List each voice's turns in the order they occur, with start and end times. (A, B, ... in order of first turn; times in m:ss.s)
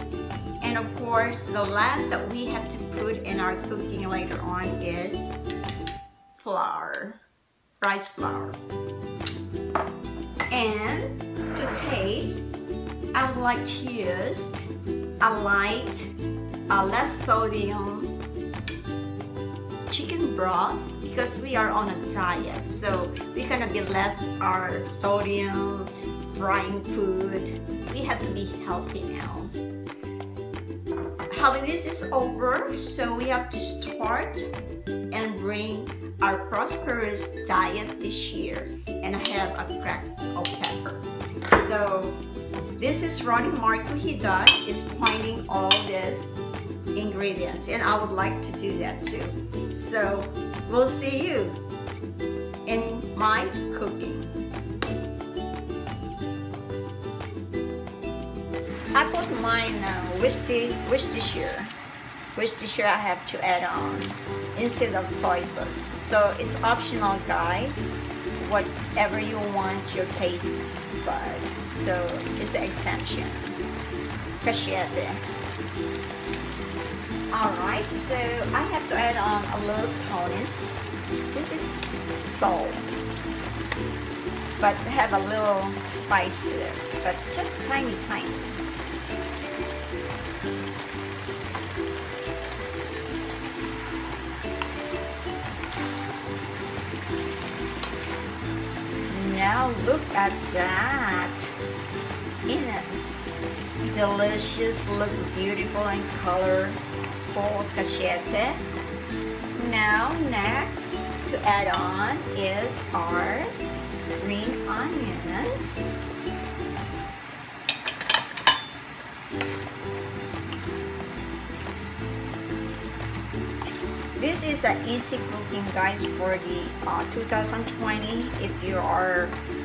0:00.6-0:05.3 A
0:06.3-0:07.2 A
0:07.8-0:08.6 A
0:10.5-0:12.5 A
0:13.1-0:14.7 A
0:15.2-0:16.1 A
0:16.7-0:18.1 A
0:19.9-0:29.5 A
0:31.3-0:34.5 A
0:35.1-0:42.2 A
0:42.8-0:46.4 A
0:46.9-0:51.6 A
0:52.6-0:54.3 A
0:58.9-1:01.7 A
1:02.3-1:13.6 A
1:14.4-1:15.2 A
1:17.3-1:20.7 A
1:21.3-1:23.0 A
1:24.6-1:28.6 A
1:39.1-1:41.5 A
1:42.5-1:43.0 A
1:43.8-1:48.6 A
1:49.5-1:53.5 A
1:54.2-1:55.8 A
2:04.2-2:09.4 A